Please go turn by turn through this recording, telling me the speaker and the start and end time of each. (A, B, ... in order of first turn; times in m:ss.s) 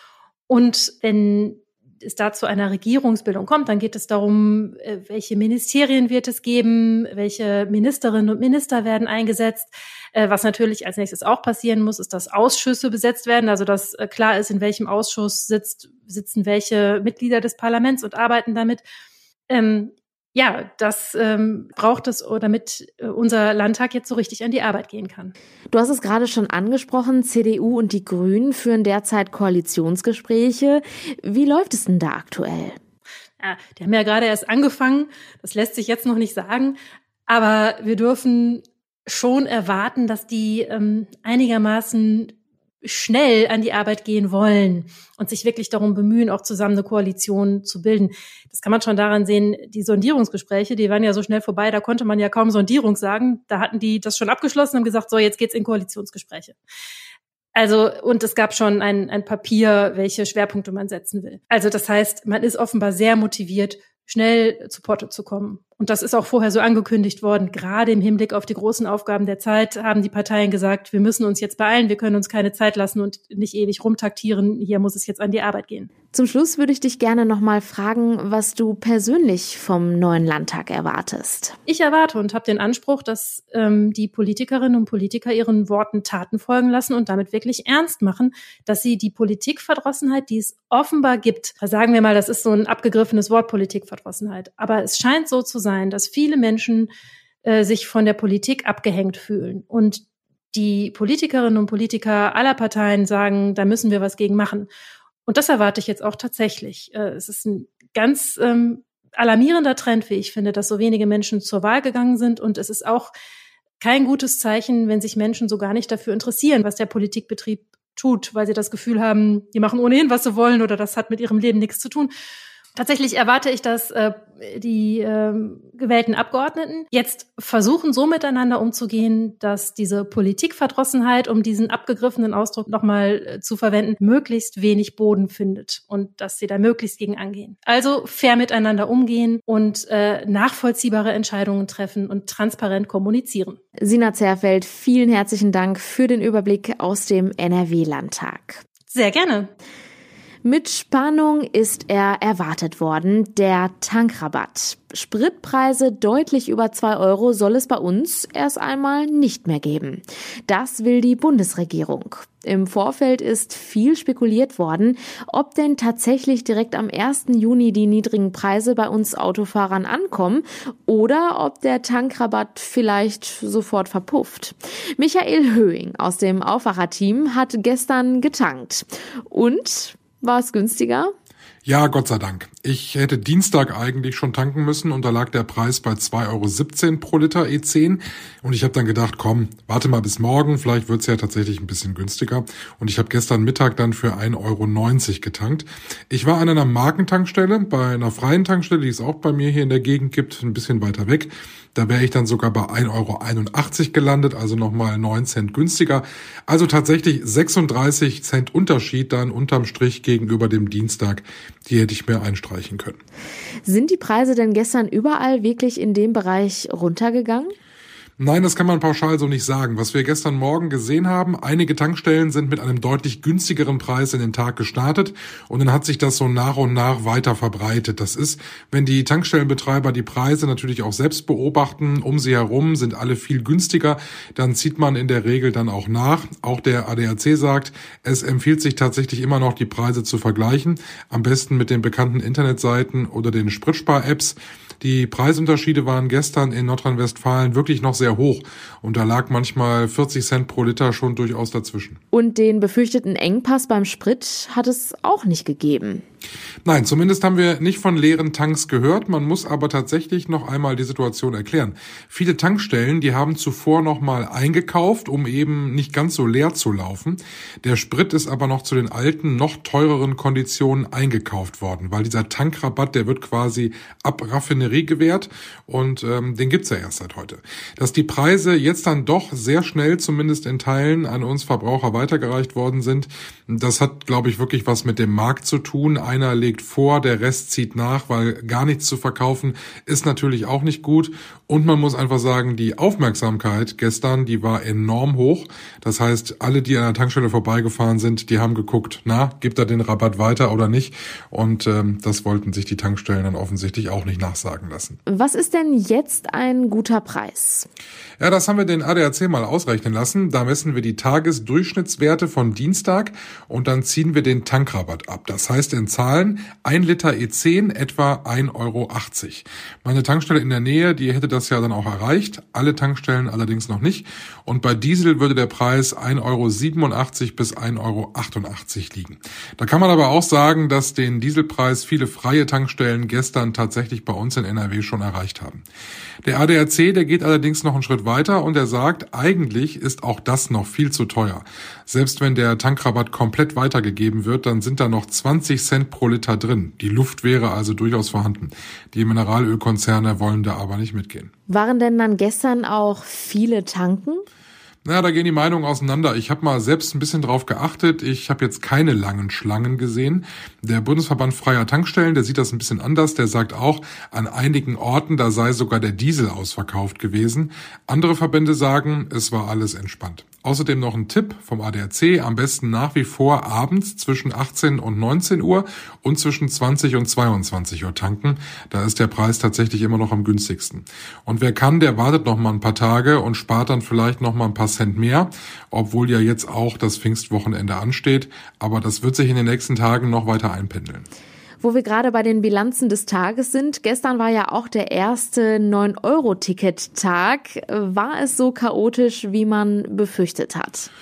0:00.5-0:18.8 A
0:19.5-0:25.3 A
0:25.7-0:32.8 B
0:33.4-0:56.6 A
0:57.5-1:15.9 A
1:16.1-1:21.6 B
1:21.7-1:36.9 A
1:37.4-1:44.7 A
1:45.2-1:53.1 A
1:53.8-2:02.1 A
2:02.7-2:23.6 A
2:23.8-2:28.6 B
2:28.9-2:29.5 A
2:30.4-3:01.1 B
3:01.6-3:33.0 C
3:33.6-3:37.5 B
3:38.2-4:12.0 C
4:12.1-4:16.0 B
4:16.6-5:05.0 C
5:05.1-5:07.7 B
5:08.2-5:35.6 C
5:36.2-5:51.3 C
5:51.5-5:54.2 B
5:54.8-6:31.1 C
6:31.6-6:40.9 B